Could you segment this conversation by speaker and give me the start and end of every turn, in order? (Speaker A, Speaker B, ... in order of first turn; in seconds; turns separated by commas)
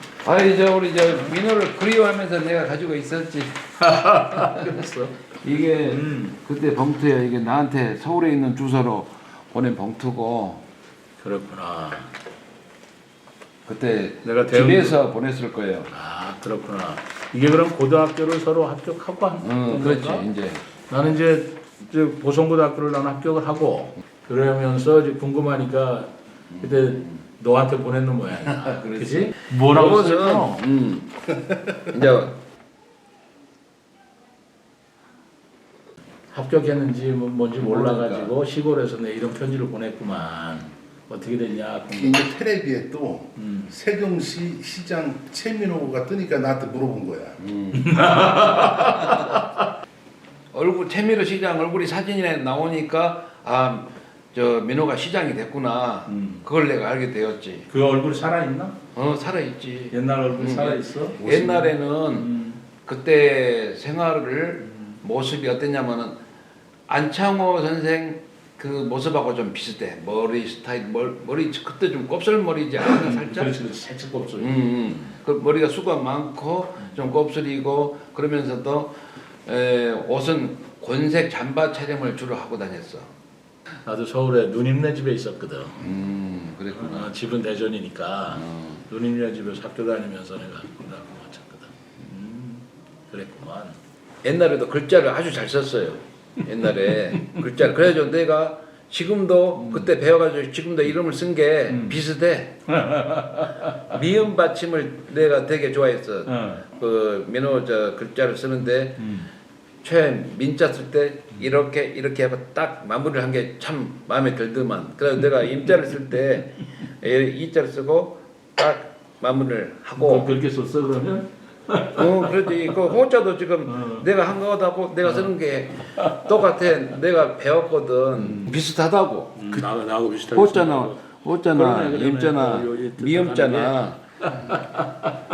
Speaker A: 0.2-3.7, Speaker B: 3.8-6.3, Speaker A: 4.3-4.7, Speaker A: 5.4-10.6, Speaker B: 11.2-12.1, Speaker A: 13.7-15.9, Speaker B: 14.2-14.9, Speaker B: 15.9-20.3, Speaker A: 19.4-20.6, Speaker B: 20.9-30.6, Speaker A: 26.5-27.2, Speaker A: 28.4-31.3, Speaker C: 31.4-31.8, Speaker A: 31.8-32.4, Speaker B: 36.3-42.2, Speaker A: 37.6-38.3, Speaker C: 41.9-47.4, Speaker B: 43.4-43.7, Speaker A: 47.4-49.4, Speaker B: 47.7-49.6, Speaker A: 50.5-57.7, Speaker B: 56.1-56.4, Speaker B: 57.7-58.7, Speaker A: 58.9-62.3, Speaker B: 59.9-62.6, Speaker A: 62.8-66.2, Speaker A: 66.9-73.5, Speaker B: 72.9-74.5, Speaker A: 74.4-83.1, Speaker B: 83.8-85.8, Speaker A: 85.8-87.1, Speaker B: 86.8-93.8, Speaker A: 88.3-88.8, Speaker A: 94.2-102.6, Speaker B: 99.6-99.9, Speaker B: 101.7-102.0, Speaker B: 102.7-103.9, Speaker A: 103.8-109.1, Speaker B: 106.3-106.6, Speaker B: 109.0-109.3, Speaker A: 109.8-120.3, Speaker B: 120.0-122.8, Speaker A: 121.9-129.6, Speaker B: 123.7-124.1, Speaker B: 125.0-125.3, Speaker B: 125.9-126.5, Speaker B: 128.2-128.5, Speaker B: 129.4-135.1, Speaker A: 130.3-134.6